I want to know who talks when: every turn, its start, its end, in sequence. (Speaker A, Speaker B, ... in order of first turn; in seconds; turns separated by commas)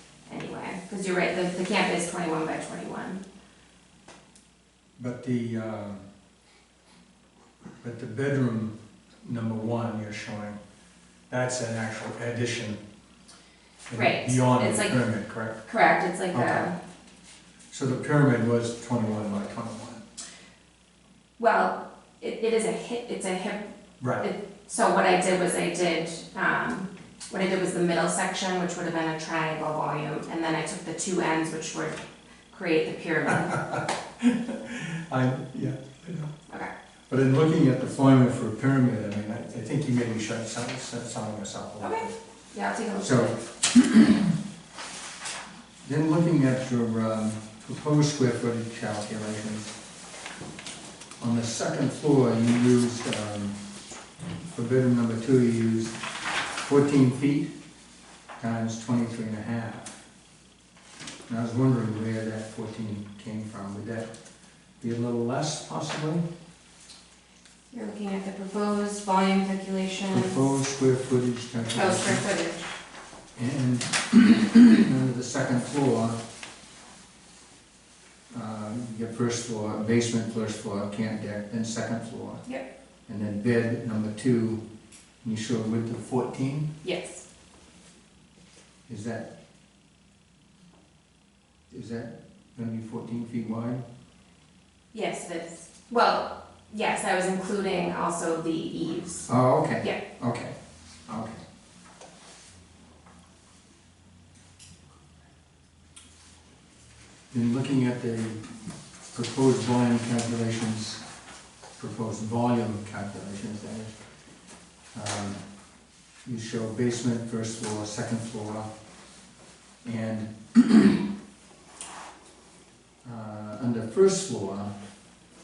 Speaker A: 0.2-3.2, Speaker B: 5.0-6.0, Speaker B: 7.8-10.6, Speaker B: 11.3-12.8, Speaker B: 13.9-15.6, Speaker A: 13.9-15.0, Speaker A: 15.6-16.8, Speaker B: 16.3-16.7, Speaker B: 17.7-20.0, Speaker A: 21.4-33.7, Speaker B: 24.0-24.2, Speaker B: 33.5-36.3, Speaker B: 37.1-42.1, Speaker A: 41.8-43.4, Speaker B: 43.0-44.3, Speaker B: 45.8-49.7, Speaker B: 51.2-53.6, Speaker B: 54.5-56.0, Speaker B: 56.6-57.5, Speaker B: 58.4-59.9, Speaker B: 61.3-64.1, Speaker B: 64.8-66.2, Speaker A: 67.7-70.6, Speaker B: 70.1-72.2, Speaker A: 71.7-72.6, Speaker B: 73.3-76.2, Speaker B: 78.3-82.4, Speaker B: 83.1-84.6, Speaker B: 85.2-86.7, Speaker A: 86.8-87.2, Speaker B: 88.9-89.3, Speaker B: 91.7-93.8, Speaker A: 94.9-99.3, Speaker B: 99.3-100.5, Speaker B: 101.1-101.4, Speaker B: 107.3-108.6, Speaker B: 109.1-111.0, Speaker B: 111.8-113.9, Speaker B: 114.9-115.4, Speaker B: 116.2-118.7, Speaker B: 119.8-121.0, Speaker B: 123.0-124.7